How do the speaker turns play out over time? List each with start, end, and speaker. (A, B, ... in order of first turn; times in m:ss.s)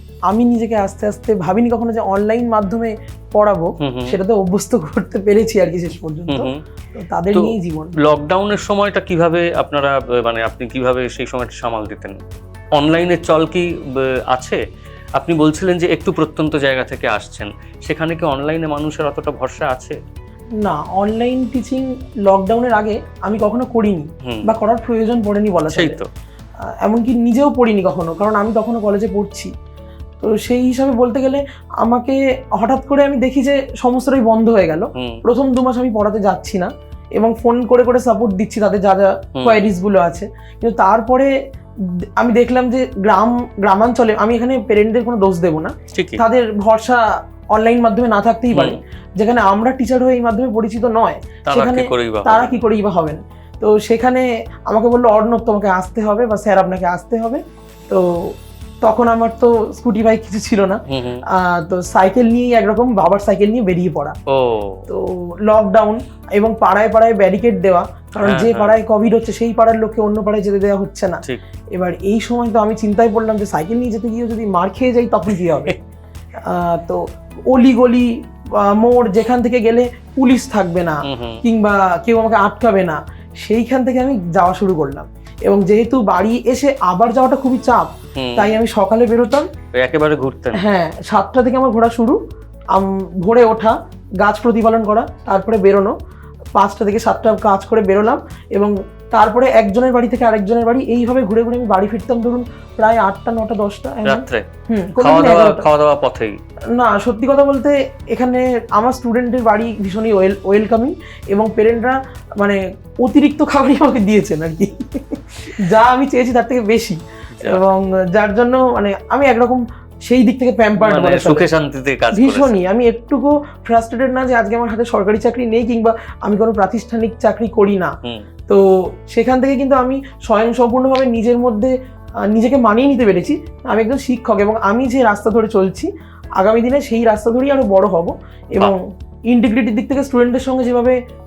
0:00.3-0:07.9 A
0:03.8-0:04.2 B
0:06.3-0:06.6 B
0:07.3-0:12.2 B
0:12.8-0:14.6 B
0:15.2-0:20.0 B
0:20.6-0:26.0 A
0:24.2-0:24.5 B
0:25.7-0:26.1 B
0:26.7-0:29.5 A
0:30.2-0:41.3 A
0:34.9-0:35.2 B
0:39.4-0:39.6 B
0:42.2-1:04.2 A
0:45.9-0:46.2 B
0:48.5-0:48.8 B
0:51.4-0:52.6 B
1:00.9-1:01.2 B
1:04.3-1:04.9 B
1:04.9-1:11.2 A
1:08.2-1:08.8 B
1:11.7-1:15.8 A
1:15.3-1:15.7 B
1:16.4-1:29.5 A
1:21.0-1:21.4 B
1:28.2-1:28.6 B
1:29.7-1:30.6 B
1:30.5-1:32.2 A
1:32.7-1:35.9 A
1:36.6-1:45.6 A
1:44.0-1:44.4 B
1:45.0-1:46.4 B
1:46.7-2:01.5 A
1:57.4-1:57.6 B
2:00.8-2:02.6 B
2:02.1-2:07.9 A
2:08.5-2:21.0 A